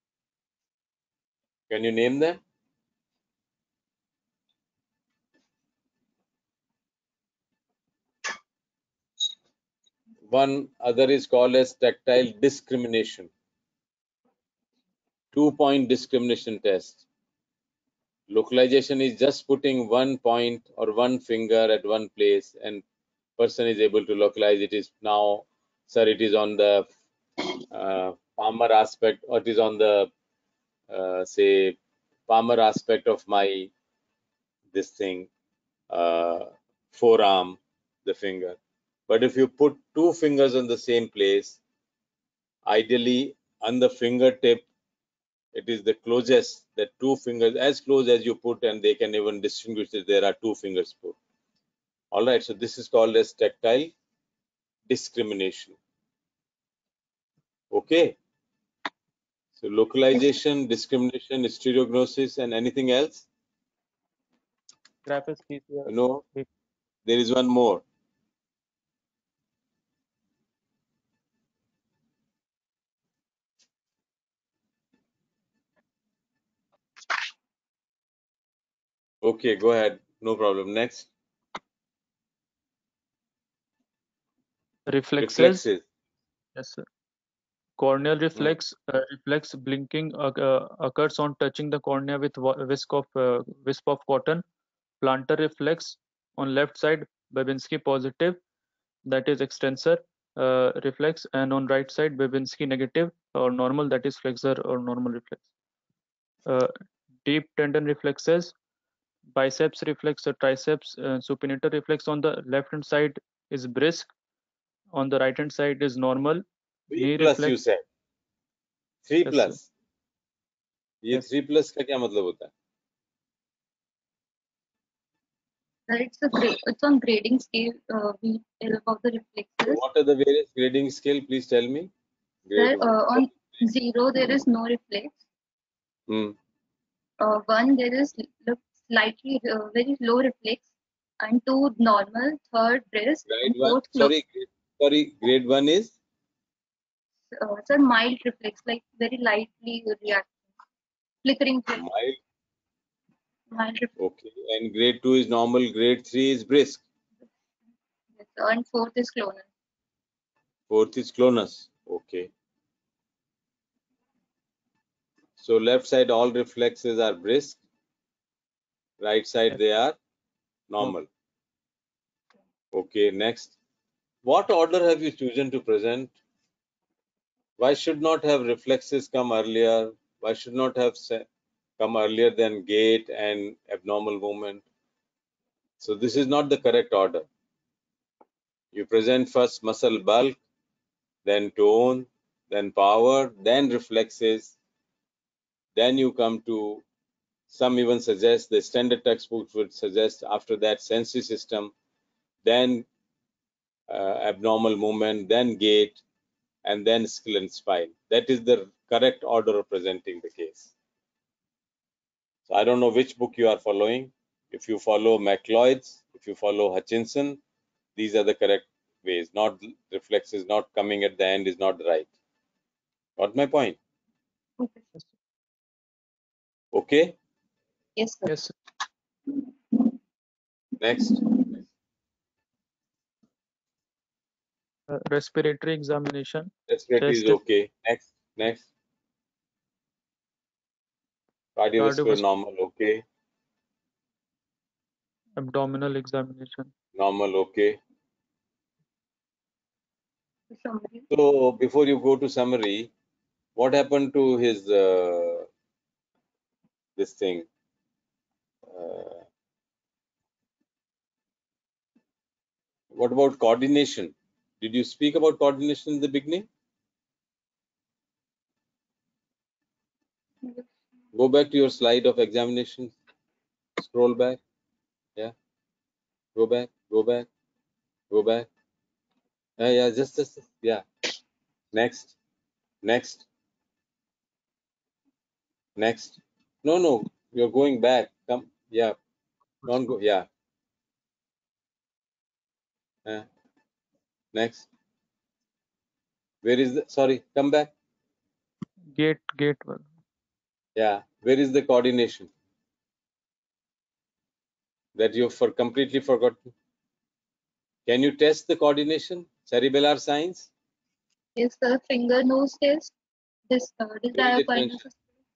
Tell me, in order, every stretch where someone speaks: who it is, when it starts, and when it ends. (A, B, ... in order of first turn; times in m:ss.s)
0:01.7-0:02.4 A
0:10.3-0:13.3 A
0:15.3-0:17.0 A
0:18.3-0:22.8 A
0:23.4-0:26.9 A
0:27.7-0:30.1 A
0:30.9-0:31.8 A
0:32.3-0:33.7 A
0:34.7-0:35.3 A
0:35.9-0:41.6 A
0:42.6-0:44.7 A
0:45.5-0:51.2 A
0:52.1-0:53.9 A
0:54.9-0:55.8 A
0:57.7-0:58.2 A
0:59.6-1:03.2 A
1:05.0-1:06.4 B
1:05.9-1:06.2 A
1:07.0-1:07.8 A
1:19.2-1:21.1 A
1:24.9-1:25.6 B
1:25.2-1:25.8 A
1:26.6-1:26.8 B
1:27.8-1:34.4 B
1:35.0-1:38.4 B
1:39.0-1:45.4 B
1:47.2-1:48.5 B
1:49.3-1:54.1 B
1:54.9-1:57.6 B
1:56.9-1:57.8 A
1:59.0-1:59.7 A
1:59.2-1:59.6 B
2:01.0-2:02.5 A
2:05.9-2:09.8 C
2:09.6-2:11.9 A
2:12.4-2:13.7 A
2:12.6-2:15.2 C
2:16.1-2:16.4 A
2:17.2-2:20.6 C
2:21.2-2:24.1 C
2:23.3-2:25.9 A
2:27.3-2:30.3 C
2:31.2-2:31.8 C
2:31.8-2:32.2 A
2:33.5-2:33.9 C
2:34.0-2:36.8 A
2:38.2-2:39.5 C
2:40.7-2:42.3 A
2:45.4-2:47.6 A
2:49.0-2:50.0 A
2:50.7-2:51.1 A
2:52.7-2:53.6 A
2:54.2-2:56.1 A
2:57.6-3:01.2 A
3:01.8-3:04.6 A
3:05.8-3:07.3 A
3:08.7-3:10.4 A
3:11.2-3:14.5 A
3:15.7-3:16.8 A
3:17.5-3:21.7 A
3:22.4-3:22.8 A
3:23.9-3:26.0 A
3:26.6-3:30.7 A
3:32.5-3:37.4 A
3:38.0-3:42.1 A
3:43.2-3:43.8 A
3:44.6-3:44.8 C
3:46.7-3:47.2 A
3:48.0-3:48.3 C
3:48.3-3:48.5 B
3:50.8-3:51.2 A
3:54.9-3:57.4 B
3:56.7-3:58.7 A
4:01.6-4:03.0 A
4:01.8-4:02.2 B
4:05.4-4:06.7 B
4:06.9-4:07.8 A
4:10.5-4:11.1 C
4:11.1-4:12.9 A
4:13.6-4:15.5 A
4:17.0-4:17.4 A
4:18.7-4:19.2 A
4:22.9-4:26.5 A
4:30.4-4:30.7 C
4:31.1-4:33.0 A
4:33.8-4:34.4 A
4:36.4-4:37.3 A
4:38.1-4:38.5 A
4:39.6-4:40.8 A
4:41.7-4:42.2 A
4:42.8-4:43.2 A
4:45.8-4:49.0 A
4:49.6-4:50.3 A
4:54.3-4:54.7 A
4:56.4-4:57.7 A
4:58.9-4:59.8 B
5:00.8-5:02.3 A
5:04.9-5:06.5 A
5:07.9-5:10.5 A
5:11.4-5:12.9 C
5:13.5-5:15.0 C
5:14.1-5:14.8 A